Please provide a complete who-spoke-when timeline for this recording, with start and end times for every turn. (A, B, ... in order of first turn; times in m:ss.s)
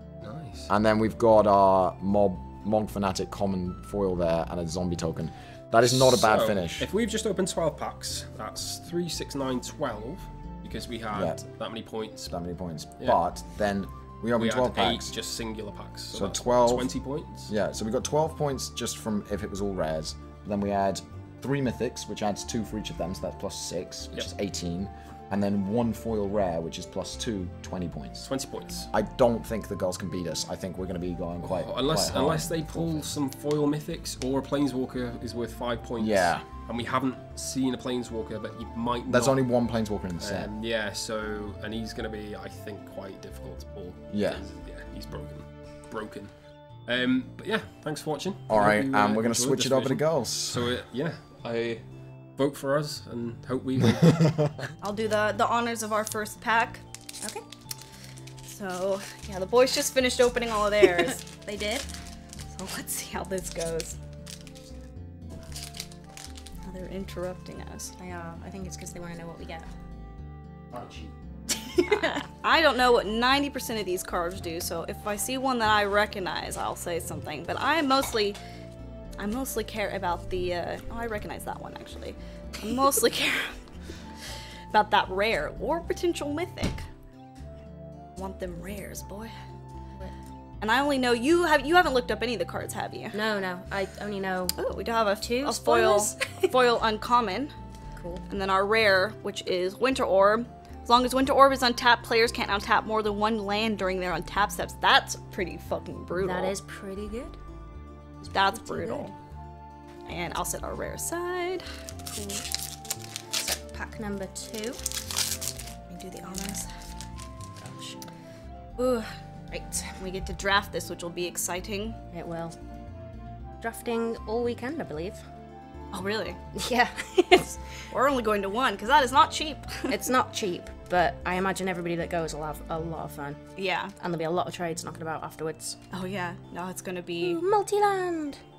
0:00.2-0:00.7 A
0:00.7-0:06.9 B
0:05.8-0:12.3 A
0:11.1-0:11.4 B
0:12.3-0:15.1 B
0:14.4-0:17.5 A
0:16.1-0:16.9 B
0:17.5-0:28.3 B
0:28.2-0:28.9 A
0:28.9-0:33.1 B
0:31.4-0:39.4 A
0:36.0-0:36.4 B
0:39.1-0:40.5 B
0:40.2-0:46.3 A
0:44.1-0:44.4 B
0:46.9-0:51.8 A
0:48.5-0:50.7 B
0:52.4-0:54.7 A
0:54.0-0:54.5 B
0:54.8-0:56.8 C
0:58.4-1:01.2 C
1:00.9-1:01.9 D
1:02.5-1:04.0 C
1:06.6-1:07.9 C
1:08.0-1:09.7 D
1:10.7-1:11.0 B
1:11.6-1:12.2 D
1:11.9-1:18.4 C
1:19.2-1:23.5 C
1:24.7-1:26.8 C
1:28.2-1:29.3 C
1:30.6-1:33.1 C
1:33.1-1:34.6 D
1:34.6-1:37.5 C
1:35.2-1:36.5 D
1:38.0-1:38.2 D
1:38.3-1:46.5 C
1:46.2-1:47.4 D
1:48.2-1:49.1 D
1:48.3-1:49.1 C
1:50.1-1:51.6 C
1:52.1-1:52.4 D
1:53.4-1:54.8 D
1:55.9-1:56.7 C
1:57.6-1:58.1 D
1:58.8-1:59.1 C
1:59.5-2:00.0 D
2:00.0-2:02.0 C
2:02.1-2:02.6 D
2:03.6-2:05.2 D
2:05.9-2:06.4 C
2:06.5-2:07.8 D
2:07.9-2:10.0 C
2:09.9-2:13.4 D
2:13.6-2:13.9 C
2:14.0-2:15.8 D
2:15.9-2:17.4 C
2:17.2-2:18.4 D